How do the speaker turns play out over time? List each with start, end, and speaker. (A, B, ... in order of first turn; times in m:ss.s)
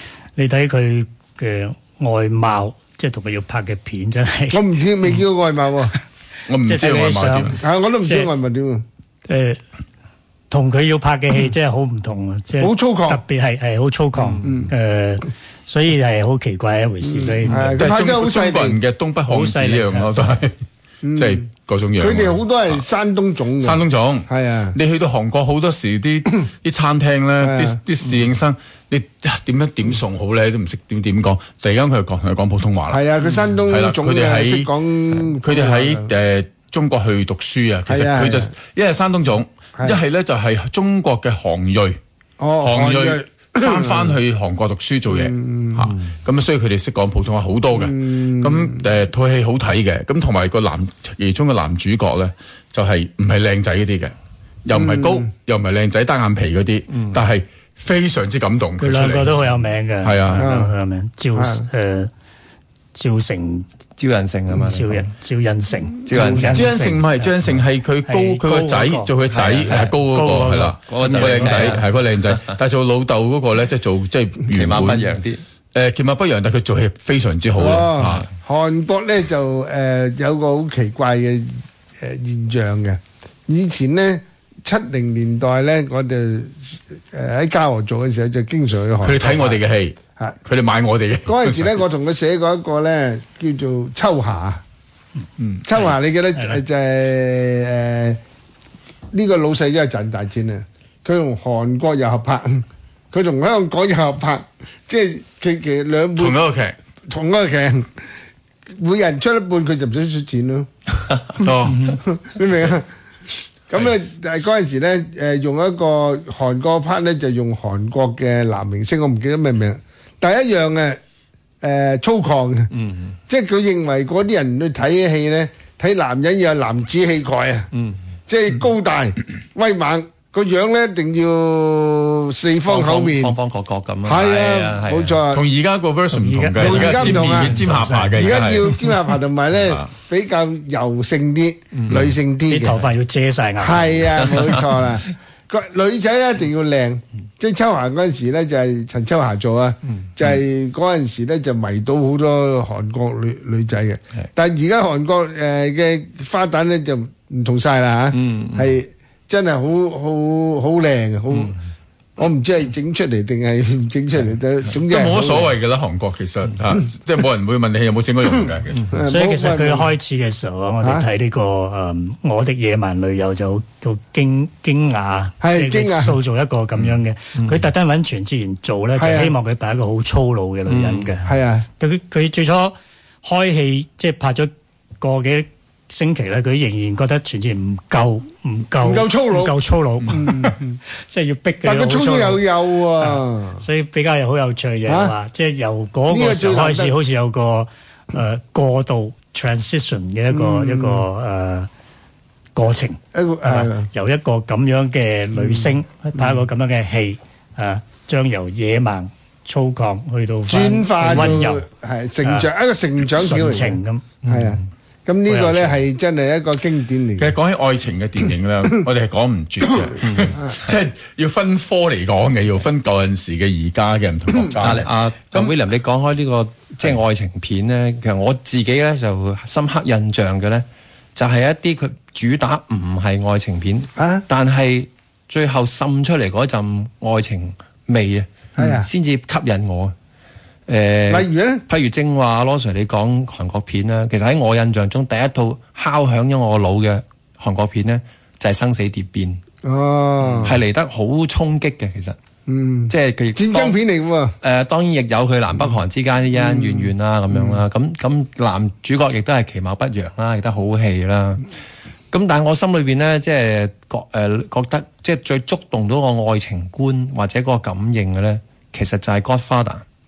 0:00.4-0:04.6 A
0:04.5-0:05.9 B
0:06.5-0:07.6 C
0:06.6-0:08.3 A
0:07.6-0:08.8 B
0:09.3-0:09.6 A
0:10.5-0:17.8 A
0:12.6-0:13.2 B
0:14.2-0:14.5 D
0:14.4-0:14.7 B
0:17.0-0:18.8 B
0:17.8-0:20.6 C
0:19.3-0:20.2 A
0:21.0-0:21.4 B
0:21.2-0:22.8 C
0:22.0-0:24.8 B
0:23.6-0:33.0 C
0:27.4-0:27.8 B
0:32.9-0:36.1 B
0:33.7-0:34.7 C
0:35.2-0:42.0 C
0:37.9-0:38.5 B
0:42.4-0:44.2 B
0:42.6-0:54.1 C
0:45.1-0:46.0 B
0:47.8-0:48.8 B
0:54.6-0:59.4 C
0:54.7-0:55.3 B
0:56.9-0:57.2 D
0:58.8-1:02.1 A
1:00.0-1:00.5 C
1:00.4-1:00.7 B
1:01.4-1:01.7 B
1:03.0-1:03.7 A
1:04.0-1:05.1 D
1:04.5-1:07.3 A
1:06.1-1:06.7 D
1:06.5-1:15.2 C
1:08.0-1:09.1 A
1:09.3-1:10.0 D
1:09.7-1:11.8 A
1:10.9-1:12.6 D
1:14.5-1:15.4 D
1:15.7-1:18.3 C
1:17.6-1:29.6 B
1:29.0-1:31.8 C
1:31.3-1:34.6 B
1:35.4-1:35.9 C
1:35.6-1:38.2 B
1:39.1-1:46.4 B
1:46.2-1:46.8 C
1:47.1-1:47.9 B
1:48.8-1:50.7 B
1:51.4-1:51.9 C
1:51.8-1:52.9 B
1:53.7-2:01.0 B
2:01.6-2:02.7 B
2:02.7-2:03.1 D
2:03.3-2:07.7 B
2:07.7-2:08.0 D
2:08.3-2:13.4 B
2:12.6-2:15.2 D
2:14.0-2:15.4 B
2:15.3-2:18.9 C
2:16.1-2:18.5 A
2:16.6-2:17.6 B
2:18.2-2:22.8 B
2:19.6-2:19.9 C
2:22.5-2:24.1 A
2:23.6-2:41.6 B
2:38.1-2:38.7 D
2:42.2-2:45.6 B
2:44.8-2:48.9 C
2:48.9-2:49.9 B
2:49.1-3:12.4 A
2:50.8-2:51.1 B
2:55.4-2:56.2 B
2:57.4-2:57.6 D
2:59.0-2:59.4 B
3:00.7-3:01.1 D
3:01.3-3:01.7 B
3:08.8-3:09.6 B
3:10.1-3:10.8 B
3:11.6-3:13.6 B
3:13.0-3:21.7 A
3:14.9-3:15.2 B
3:16.1-3:17.0 B
3:20.3-3:21.1 B
3:22.6-3:31.7 A
3:23.1-3:23.9 B
3:25.4-3:26.3 B
3:30.5-3:37.3 B
3:32.2-3:32.5 A
3:33.1-3:34.1 A
3:35.3-3:35.8 A
3:37.2-3:45.6 C
3:40.0-3:40.4 D
3:44.6-4:00.0 D
3:54.0-3:54.2 B
3:58.6-3:58.9 B
4:00.7-4:09.4 D
4:01.1-4:01.6 B
4:09.6-4:10.6 B
4:10.4-4:12.2 D
4:12.5-4:14.4 B
4:12.9-4:13.8 D
4:14.4-4:21.5 D
4:16.4-4:17.6 B
4:22.1-4:29.8 D